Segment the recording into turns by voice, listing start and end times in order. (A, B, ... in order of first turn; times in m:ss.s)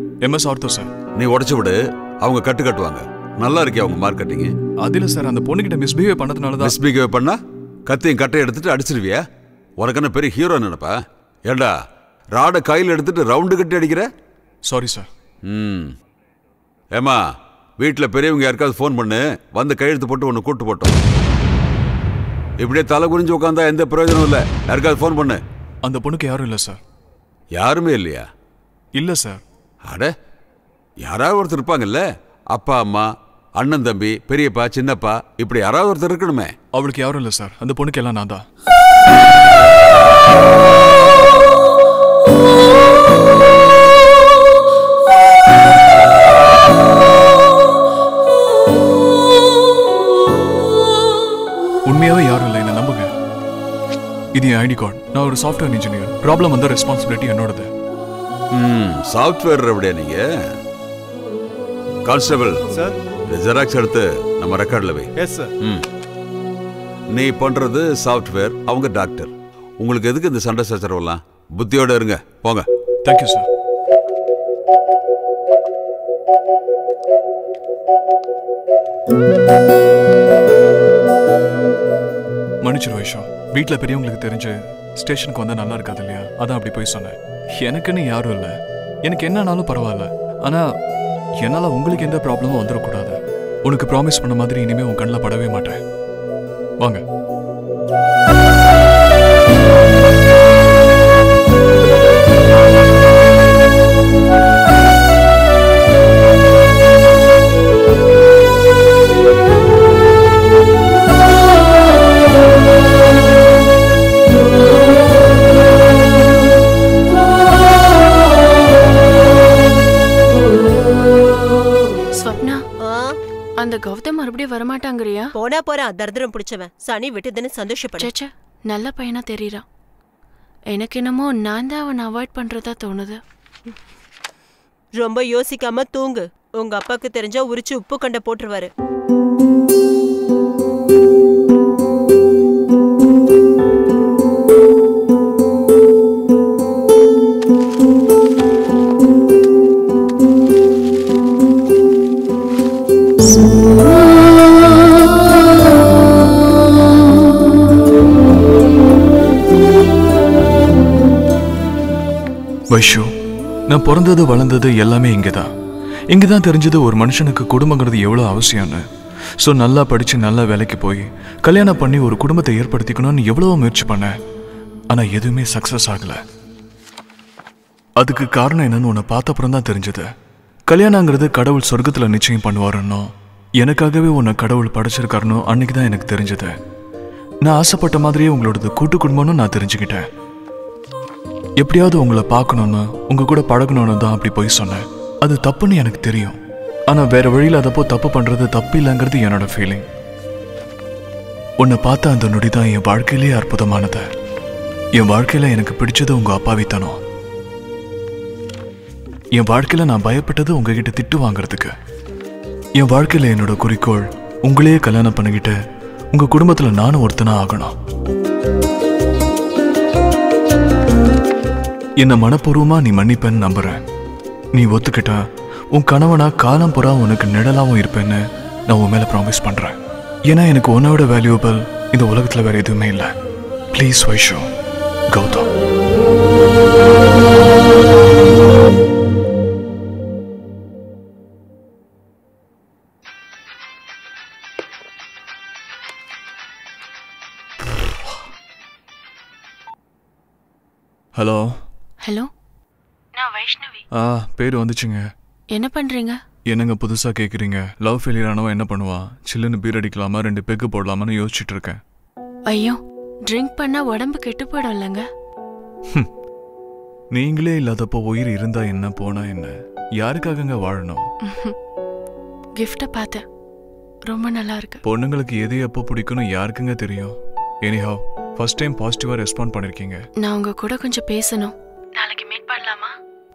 0:00.2-0:00.9 A
0:01.2-0:04.5 B
0:04.8-0:06.8 A
0:06.6-0:09.2 B
0:09.8-0:11.7 B
0:12.3-0:14.1 B
0:14.7-0:15.1 A
0:15.4-0:15.9 B
0:16.9-0:17.2 B
0:17.8-0:21.0 B
0:22.6-0:25.4 B
0:25.8-0:26.8 A
0:27.5-0:28.3 B
0:29.0-0:29.4 A
0:29.8-0:30.1 B
0:31.0-0:36.5 B
0:36.7-0:38.4 A
0:51.9-0:53.1 A
0:54.4-0:57.7 A
0:58.5-1:00.3 B
1:02.0-1:02.7 B
1:03.3-1:05.8 B
1:07.1-1:12.7 B
1:13.0-1:13.5 A
1:22.6-1:30.6 A
1:31.4-1:35.8 A
1:36.8-1:37.0 A
2:02.2-2:02.6 C
2:02.8-2:03.2 D
2:03.6-2:05.3 C
2:05.4-2:08.1 D
2:08.0-2:09.7 C
2:10.7-2:13.2 C
2:15.0-2:18.7 D
2:42.7-2:43.1 A
2:43.7-2:45.5 A
2:46.1-2:48.8 A
2:49.4-2:54.2 A
2:54.9-2:56.2 A
2:58.0-3:00.1 A
3:00.7-3:06.6 A
3:07.4-3:10.1 A
3:11.6-3:19.8 A
3:21.6-3:24.0 A
3:25.0-3:27.0 A
3:29.4-3:31.8 A
3:32.8-3:35.6 A
3:36.1-3:37.8 A
3:42.0-3:43.8 A
3:44.6-3:45.2 A
3:45.7-3:53.1 A
3:53.7-3:54.5 A
3:55.1-3:55.5 A
4:11.2-4:11.5 A
4:12.0-4:12.3 C
4:13.2-4:13.8 C
4:13.9-4:15.1 A
4:15.5-4:16.2 C
4:16.5-4:21.8 A
4:22.5-4:25.1 C
4:27.1-4:31.1 A
4:31.2-4:31.6 C
4:32.6-4:33.2 C
4:34.1-4:34.8 C
4:34.8-4:40.0 A
4:40.2-4:42.9 C